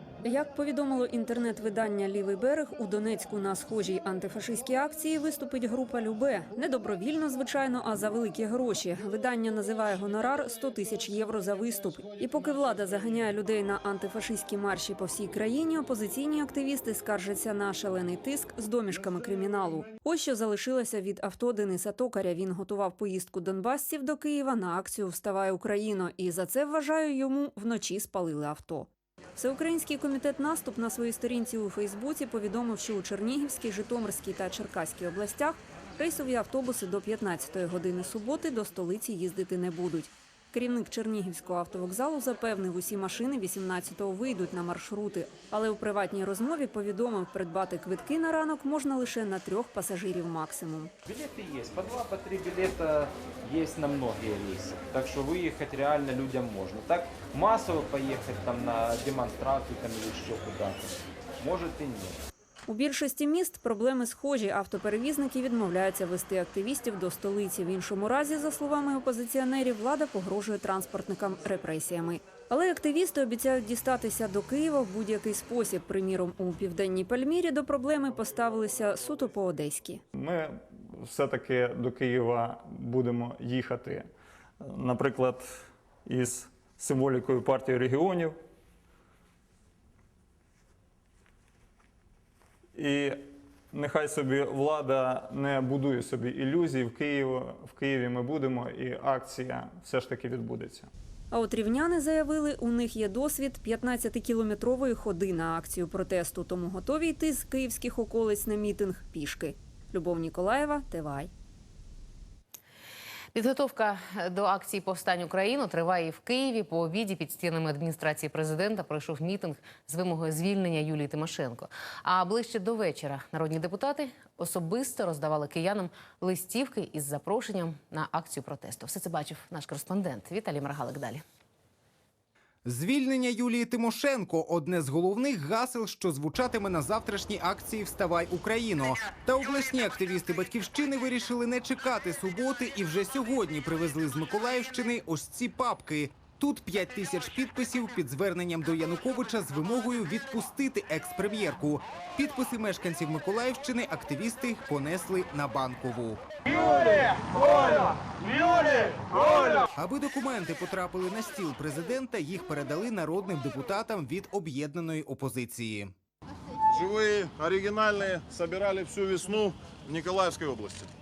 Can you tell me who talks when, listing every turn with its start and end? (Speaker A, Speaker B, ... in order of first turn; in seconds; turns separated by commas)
Speaker A: 0.2-50.9, Speaker B: 51.2-60.9, Speaker B: 61.5-62.0, Speaker A: 62.7-80.0, Speaker C: 80.1-84.1, Speaker C: 84.6-88.4, Speaker C: 92.7-100.9, Speaker A: 101.3-111.3, Speaker D: 113.3-131.2, Speaker E: 132.6-156.2, Speaker F: 156.5-159.6, Speaker E: 159.7-165.9, Speaker F: 166.7-170.9